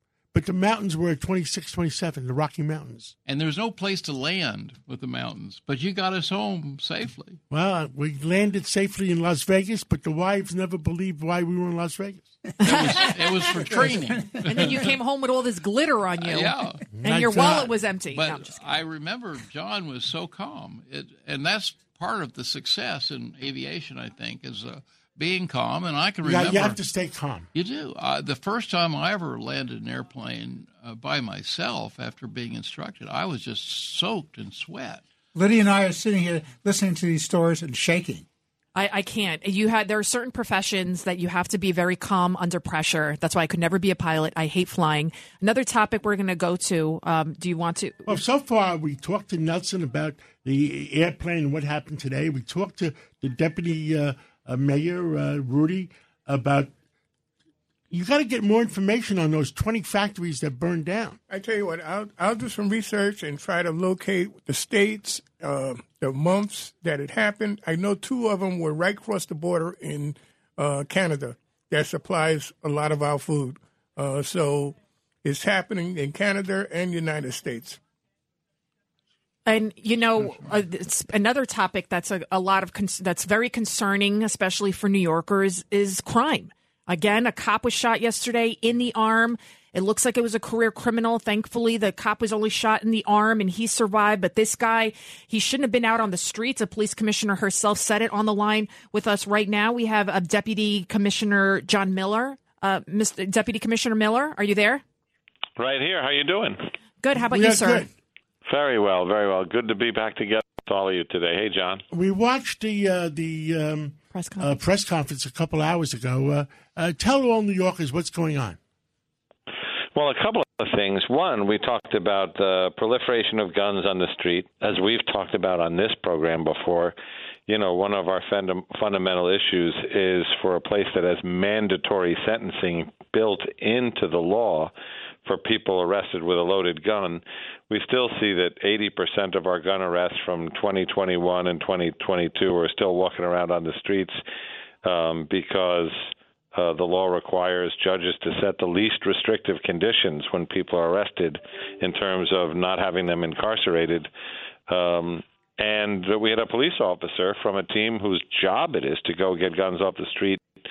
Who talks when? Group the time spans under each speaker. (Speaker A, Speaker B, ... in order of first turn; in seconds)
Speaker A: 0.3-3.1, 7.5-12.4, 16.9-17.8, 26.2-27.5, 48.0-56.7, 57.9-61.2, 107.2-107.9, 111.9-118.6
Speaker B: 3.2-7.4, 12.6-14.8, 16.2-16.9, 18.1-26.8, 27.5-35.0
Speaker C: 12.6-13.0, 14.4-18.6, 38.7-48.1, 79.5-104.8, 107.0-107.8, 114.1-114.5
Speaker D: 35.3-38.2
Speaker E: 61.3-77.8
Speaker F: 105.6-106.6, 108.5-111.8, 119.9-126.9, 127.5-134.7, 135.2-144.2, 144.8-154.1, 154.7-160.4